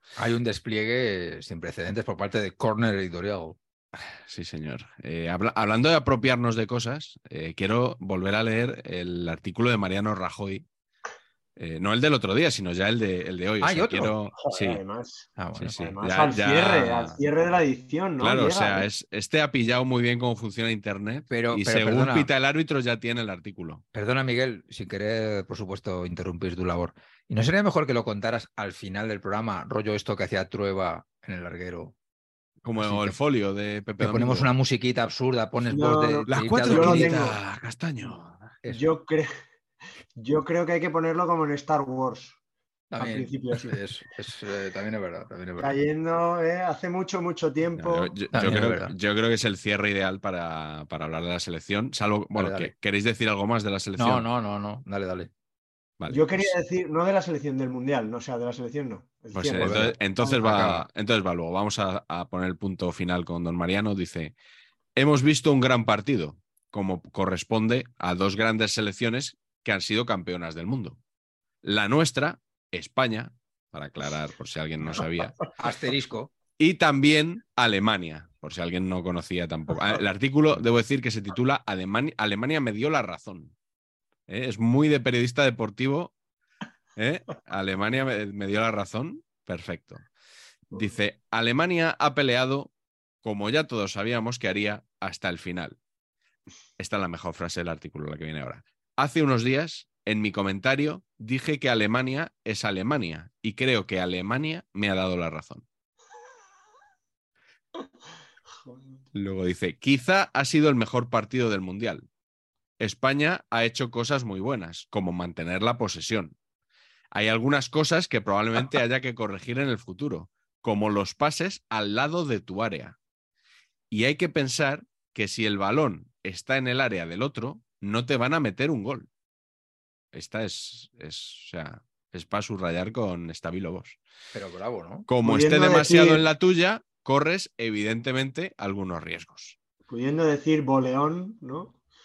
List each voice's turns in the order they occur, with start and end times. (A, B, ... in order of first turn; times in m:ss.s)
0:00.2-0:03.6 A
0:04.1-0:10.6 B
0:11.6-0:14.8 B
0:13.6-0:14.1 A
0:14.4-0:18.9 C
0:15.4-0:15.8 A
0:15.6-0:17.2 B
0:18.2-0:23.8 B
0:21.3-0:22.3 A
0:23.9-0:31.9 A
0:32.6-0:34.5 B
0:32.8-0:33.2 A
0:34.0-0:37.2 A
0:35.6-0:37.4 C
0:36.3-0:38.5 B
0:38.7-0:39.3 C
0:40.2-0:42.4 C
0:42.9-0:45.8 A
0:43.0-0:43.8 C
0:45.6-0:48.2 C
0:47.8-0:54.2 B
0:48.3-0:48.9 A
0:52.3-0:52.7 A
0:54.0-0:55.3 A
0:56.0-0:56.5 B
0:56.1-1:00.4 C
0:59.3-1:04.3 B
0:59.6-1:00.8 A
1:05.0-1:11.0 B
1:11.6-1:15.4 B
1:15.6-1:16.3 A
1:16.6-1:23.5 B
1:24.3-1:26.1 B
1:27.0-1:30.0 B
1:30.7-1:32.7 B
1:33.2-1:35.8 B
1:36.8-1:45.6 B
1:48.6-1:49.0 C
1:49.1-1:52.1 B
1:52.8-1:56.4 B
1:57.1-2:03.0 B
2:03.9-2:09.1 B
2:10.1-2:14.0 B
2:14.3-2:15.1 A
2:15.1-2:19.6 B
2:15.2-2:16.2 C
2:19.9-2:21.8 C